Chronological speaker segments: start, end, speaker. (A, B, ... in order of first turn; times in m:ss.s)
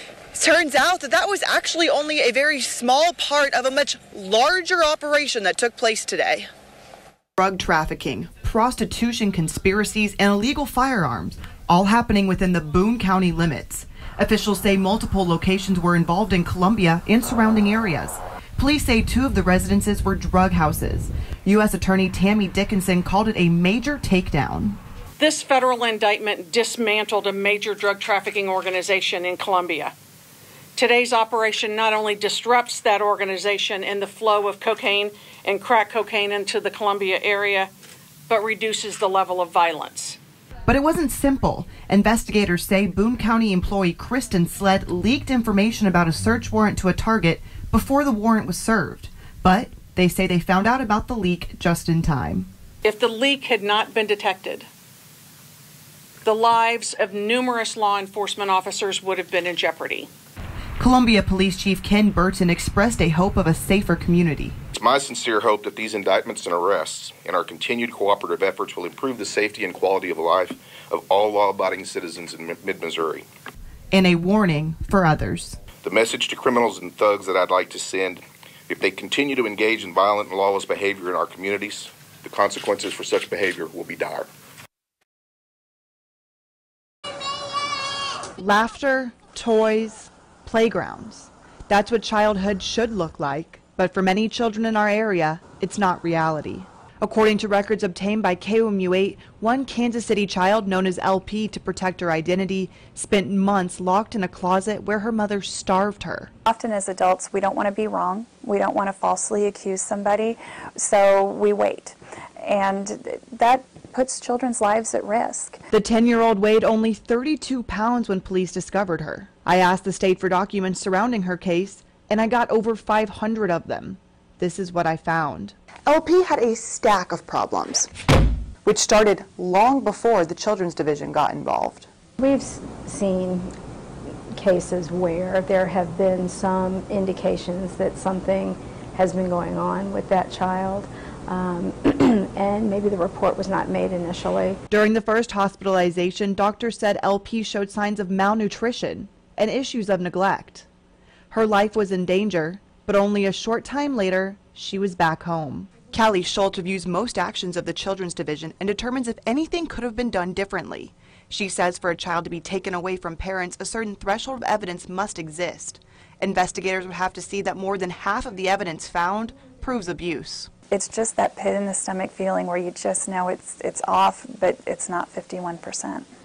0:00.3-0:06.5 A
0:07.4-0:24.8 A
0:25.2-0:29.9 B
0:30.8-0:37.7 B
0:38.3-0:40.2 B
0:40.7-0:52.5 A
0:52.8-0:54.6 B
0:56.2-1:00.1 B
1:00.8-1:04.5 A
1:04.7-1:13.2 C
1:13.9-1:15.6 A
1:15.8-1:24.3 C
1:28.4-1:46.3 A
1:46.4-1:55.6 D
1:55.7-2:07.9 A
2:08.6-2:11.9 A
2:12.2-2:13.5 E
2:14.4-2:24.6 E
2:24.7-2:30.7 A
2:31.3-2:50.5 A
2:50.7-2:56.0 D